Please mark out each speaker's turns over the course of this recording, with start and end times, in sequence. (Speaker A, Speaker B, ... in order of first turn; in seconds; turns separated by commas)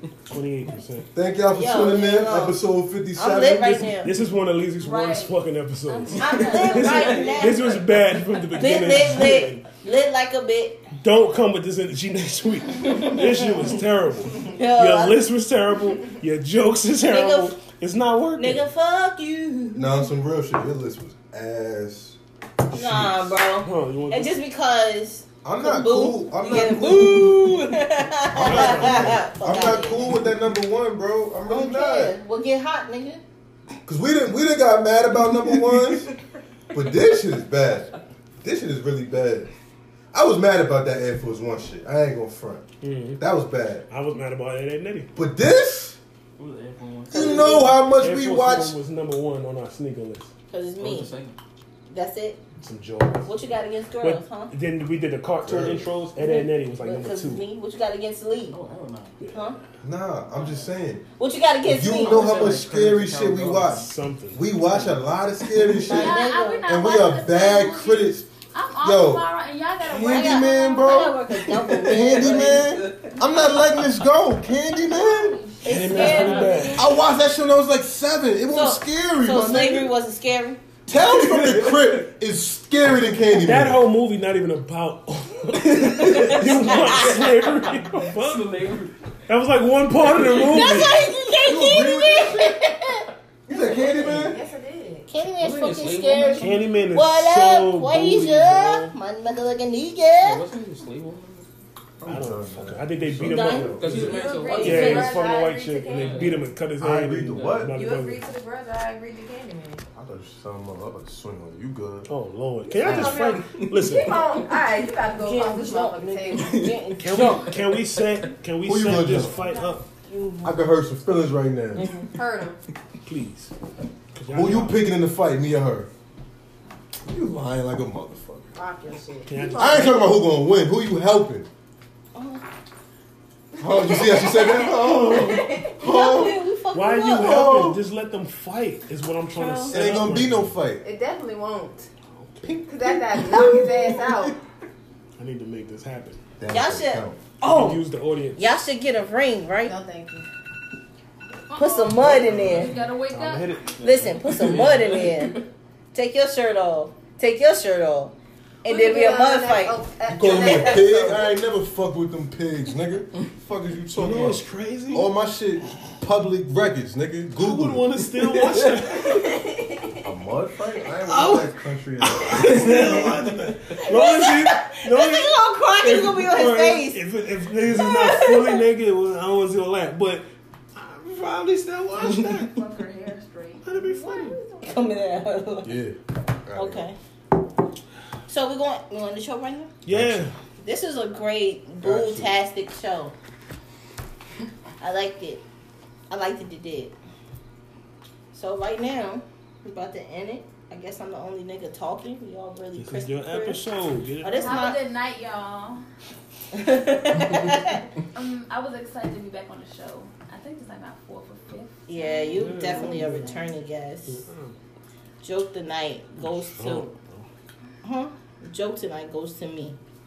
Speaker A: 0.3-1.1, Speaker B: 1.1-3.8, Speaker C: 1.5-2.6, Speaker C: 3.1-4.1, Speaker A: 3.8-9.6, Speaker D: 4.8-5.3, Speaker D: 5.9-7.4, Speaker C: 6.2-7.8, Speaker E: 6.2-8.5, Speaker C: 8.5-10.8, Speaker A: 11.0-18.6, Speaker C: 12.8-13.7, Speaker C: 14.5-15.2, Speaker C: 17.1-17.6, Speaker C: 18.4-20.1, Speaker B: 19.7-22.2, Speaker A: 22.7-24.4, Speaker C: 22.7-30.1, Speaker B: 25.4-27.7, Speaker B: 28.3-32.2, Speaker A: 28.3-29.2, Speaker C: 31.5-33.2, Speaker B: 33.9-36.1, Speaker B: 36.7-39.5, Speaker B: 40.1-42.7, Speaker A: 42.8-43.3, Speaker B: 43.2-43.9, Speaker A: 43.9-45.1, Speaker B: 45.1-46.0, Speaker E: 46.4-47.7, Speaker C: 47.1-47.7, Speaker B: 47.1-48.8, Speaker A: 47.8-50.3, Speaker C: 50.5-51.1, Speaker E: 50.8-51.4, Speaker C: 51.9-52.4, Speaker A: 52.6-53.4, Speaker C: 53.3-54.5, Speaker A: 54.0-57.5, Speaker B: 55.4-55.9, Speaker C: 56.2-58.6, Speaker E: 58.5-59.2, Speaker A: 59.2-59.5, Speaker C: 59.3-59.6, Speaker B: 59.8-61.0, Speaker C: 61.2-62.5, Speaker B: 61.6-68.3, Speaker E: 61.9-63.8, Speaker A: 63.3-64.6, Speaker E: 64.7-65.0, Speaker C: 65.8-66.7, Speaker D: 65.9-71.0, Speaker B: 68.8-69.3, Speaker B: 69.8-75.4, Speaker C: 70.1-72.7, Speaker E: 71.4-73.2, Speaker D: 74.7-76.8, Speaker C: 75.6-76.8, Speaker A: 75.7-76.9, Speaker E: 76.0-76.8, Speaker B: 76.8-79.9, Speaker C: 78.5-80.6, Speaker B: 80.9-83.8, Speaker E: 81.0-81.9, Speaker A: 83.3-88.5, Speaker E: 85.5-89.0, Speaker C: 86.7-87.0, Speaker A: 89.3-91.1, Speaker E: 90.0-90.6, Speaker C: 90.4-93.1, Speaker B: 91.4-92.6, Speaker B: 93.5-94.4, Speaker F: 93.5-95.1, Speaker E: 93.8-94.2, Speaker C: 95.1-100.4, Speaker E: 95.3-96.7, Speaker A: 96.4-98.9, Speaker E: 100.2-101.5, Speaker B: 102.0-104.2, Speaker A: 102.0-108.2, Speaker C: 103.2-104.5, Speaker E: 103.7-105.1, Speaker D: 104.2-106.3, Speaker F: 104.2-106.0, Speaker E: 105.9-106.4, Speaker B: 106.8-107.7, Speaker E: 107.3-107.7, Speaker F: 107.8-109.8, Speaker B: 110.0-112.1, Speaker A: 112.1-114.2, Speaker F: 112.8-116.6, Speaker B: 112.8-113.2, Speaker E: 112.8-113.9, Speaker C: 115.2-117.3, Speaker E: 116.3-118.3, Speaker A: 117.0-119.8, Speaker B: 118.6-119.3, Speaker D: 119.2-119.7, Speaker C: 120.0-120.6, Speaker B: 120.4-121.9, Speaker E: 121.8-122.2, Speaker F: 122.1-122.6, Speaker A: 123.1-123.5, Speaker A: 124.1-124.9, Speaker B: 124.3-125.9, Speaker B: 127.1-128.6, Speaker F: 128.6-129.6, Speaker A: 129.3-130.0, Speaker B: 129.5-131.5, Speaker C: 132.2-132.4, Speaker F: 133.6-135.7, Speaker B: 133.6-136.4, Speaker C: 135.7-137.4, Speaker A: 136.7-140.6, Speaker B: 137.1-137.8, Speaker C: 139.3-139.8, Speaker B: 139.7-140.8, Speaker F: 140.8-141.9, Speaker A: 142.1-142.6, Speaker F: 142.7-144.3, Speaker A: 145.2-146.2, Speaker B: 146.4-147.2, Speaker C: 146.5-147.8, Speaker A: 147.4-148.6, Speaker C: 148.4-149.8, Speaker F: 149.6-150.3, Speaker D: 151.5-153.5, Speaker C: 151.5-152.7, Speaker A: 152.0-154.6, Speaker C: 153.8-155.4, Speaker E: 153.8-155.4, Speaker C: 155.9-160.8, Speaker F: 158.7-161.3, Speaker B: 160.1-167.9, Speaker A: 164.0-165.1, Speaker A: 167.4-169.2, Speaker E: 168.2-169.3, Speaker F: 169.3-170.0, Speaker B: 170.0-173.0, Speaker A: 171.0-182.6, Speaker E: 172.5-173.5, Speaker C: 173.9-177.0, Speaker C: 177.7-178.6, Speaker D: 182.1-184.9, Speaker A: 183.6-184.4, Speaker C: 184.6-185.8, Speaker B: 185.6-186.9, Speaker C: 186.5-187.0, Speaker C: 188.3-189.7, Speaker A: 189.8-190.3, Speaker B: 189.9-190.3, Speaker C: 190.6-193.2, Speaker B: 191.8-192.3, Speaker C: 194.8-195.4, Speaker C: 196.1-196.9, Speaker C: 198.3-203.6, Speaker A: 202.8-204.6, Speaker C: 204.2-204.8, Speaker D: 204.3-205.8, Speaker C: 206.5-207.8, Speaker D: 208.1-212.9, Speaker C: 211.9-214.2, Speaker A: 212.3-213.5, Speaker A: 214.1-214.6, Speaker C: 215.2-216.9, Speaker A: 216.2-217.3, Speaker C: 217.8-219.8